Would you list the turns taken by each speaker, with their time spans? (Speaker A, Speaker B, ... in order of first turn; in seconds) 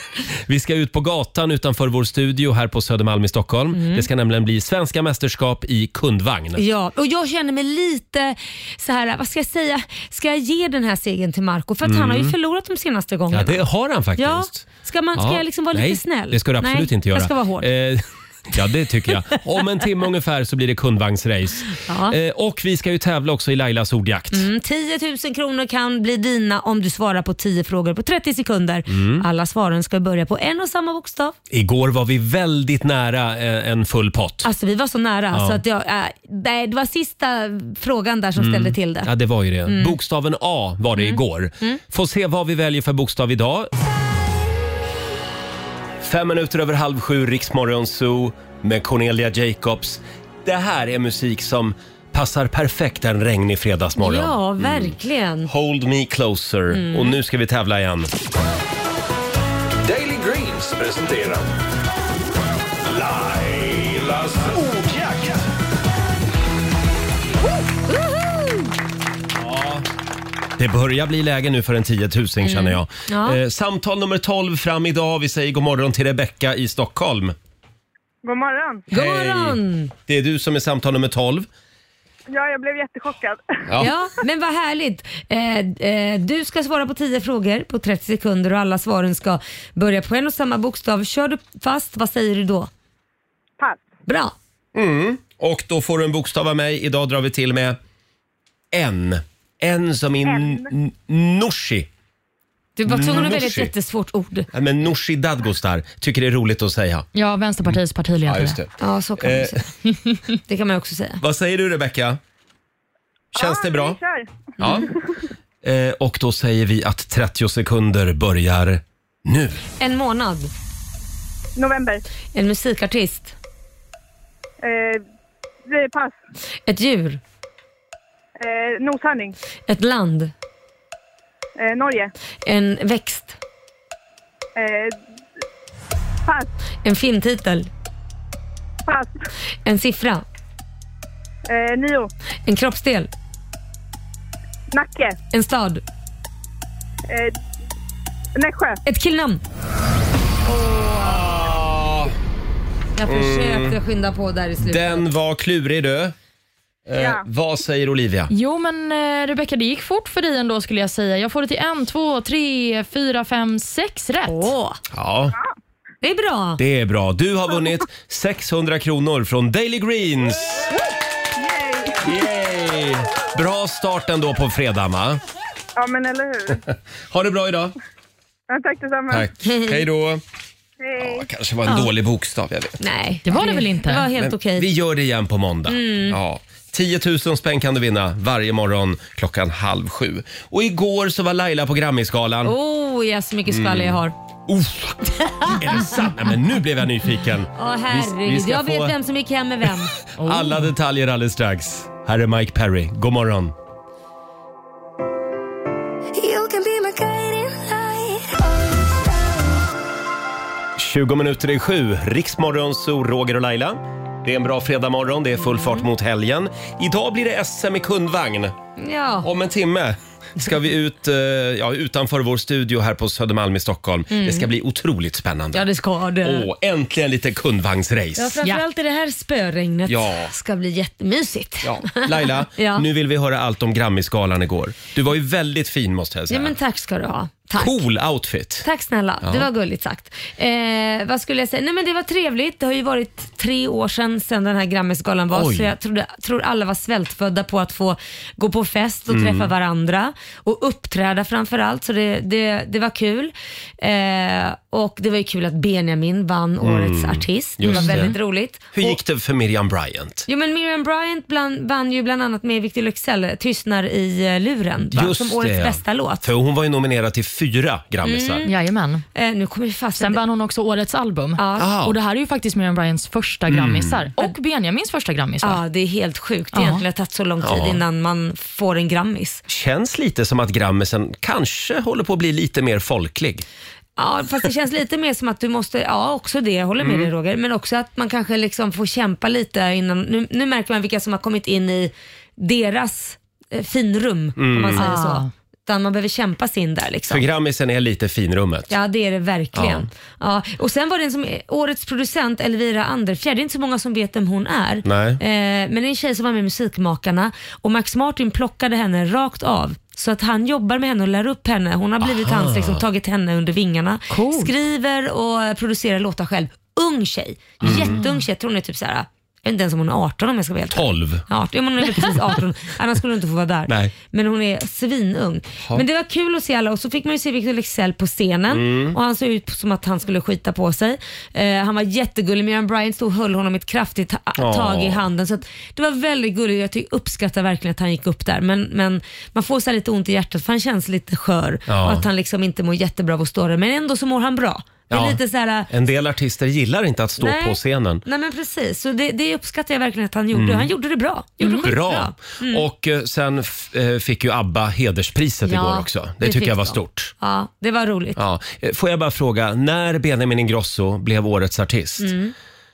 Speaker A: 0.5-6.6, 11.8-12.3, 13.3-14.6, 15.1-24.5, 28.9-29.2, 31.5-34.5, 35.3-35.6, 38.4-43.7, 46.0-54.9, 55.5-58.1, 69.3-69.8, 70.6-77.3, 78.9-81.5, 94.7-97.8, 98.7-101.9, 102.8-103.7, 104.5-107.1, 107.6-109.6, 111.2-112.2, 113.3-114.0, 114.6-114.9, 115.6-119.7, 151.0-152.1, 153.1-153.8, 154.6-156.1, 156.9-158.3, 164.9-165.3, 166.6-170.7, 172.0-175.2, 176.7-177.7, 179.1-180.2, 181.0-182.8, 184.1-192.5, 193.5-198.9, 200.2-203.5, 210.8-218.5, 219.2-225.7, 226.2-228.3, 229.9-230.3, 231.6-236.6, 237.6-238.7, 239.2-239.5, 245.3-245.7, 249.1-249.5, 256.6-258.1, 258.7-260.2, 264.9-268.4, 271.6-271.9, 273.5-274.0, 277.4-277.8, 279.5-283.4, 286.8-287.1, 294.4-294.9, 297.1-298.7, 299.5-299.9, 304.8-305.2, 312.0-312.8, 317.6-318.0, 320.7-321.2, 323.7-323.9, 328.5-329.0, 334.4-335.0, 341.7-342.0, 344.9-348.0, 350.3-350.7, 351.4-357.1, 358.1-362.1
Speaker B: 3.7-4.1, 6.5-13.6, 14.2-17.7, 21.8-22.1, 24.3-31.3, 34.4-39.1, 39.6-40.0, 41.0-41.8, 54.0-55.5, 56.7-57.2, 67.9-68.7, 72.4-73.4, 78.9-79.9, 83.8-92.7, 94.1-94.3, 102.8-104.5, 108.8-109.7, 110.5-111.2, 119.8-120.5, 122.3-123.3, 126.7-127.2, 129.7-130.3, 132.4-133.4, 136.8-137.7, 139.6-140.2, 142.4-143.1, 145.3-145.8, 148.8-149.4, 150.4-151.3, 153.0-155.1, 164.2-164.8, 166.0-166.6, 179.5-179.8, 182.8-184.7, 185.7-186.2, 192.4-194.1, 195.3-195.9, 197.5-199.9, 215.4-215.8, 218.8-219.3, 224.1-224.4, 225.5-226.4, 228.2-232.8, 236.3-237.8, 238.6-259.0, 260.3-266.2, 268.0-268.5, 269.1-270.2, 271.4-271.7, 275.4-279.4, 284.0-297.2, 298.7-345.7, 347.2-352.6, 355.4-358.2, 362.0-362.3
Speaker C: 59.8-61.4, 62.9-65.4
Speaker D: 78.2-78.8, 82.3-83.7, 93.6-93.8, 100.3-100.6, 113.3-114.8, 121.5-122.0, 124.6-125.0, 125.7-126.1, 128.4-129.3, 131.6-132.1, 134.6-135.0, 138.8-139.2, 141.5-142.1, 144.7-145.2, 147.1-147.3, 148.3-148.8, 156.9-157.2, 171.4-172.1, 175.8-176.6, 178.5-179.3, 180.8-181.2
Speaker E: 107.1-108.6, 158.3-164.5, 183.2-184.1, 200.2-200.6, 257.7-258.1, 268.4-269.0, 270.0-275.6, 276.5-276.8, 294.8-295.3, 314.1-314.5, 317.6-318.2, 351.4-351.7
Speaker F: 206.2-208.3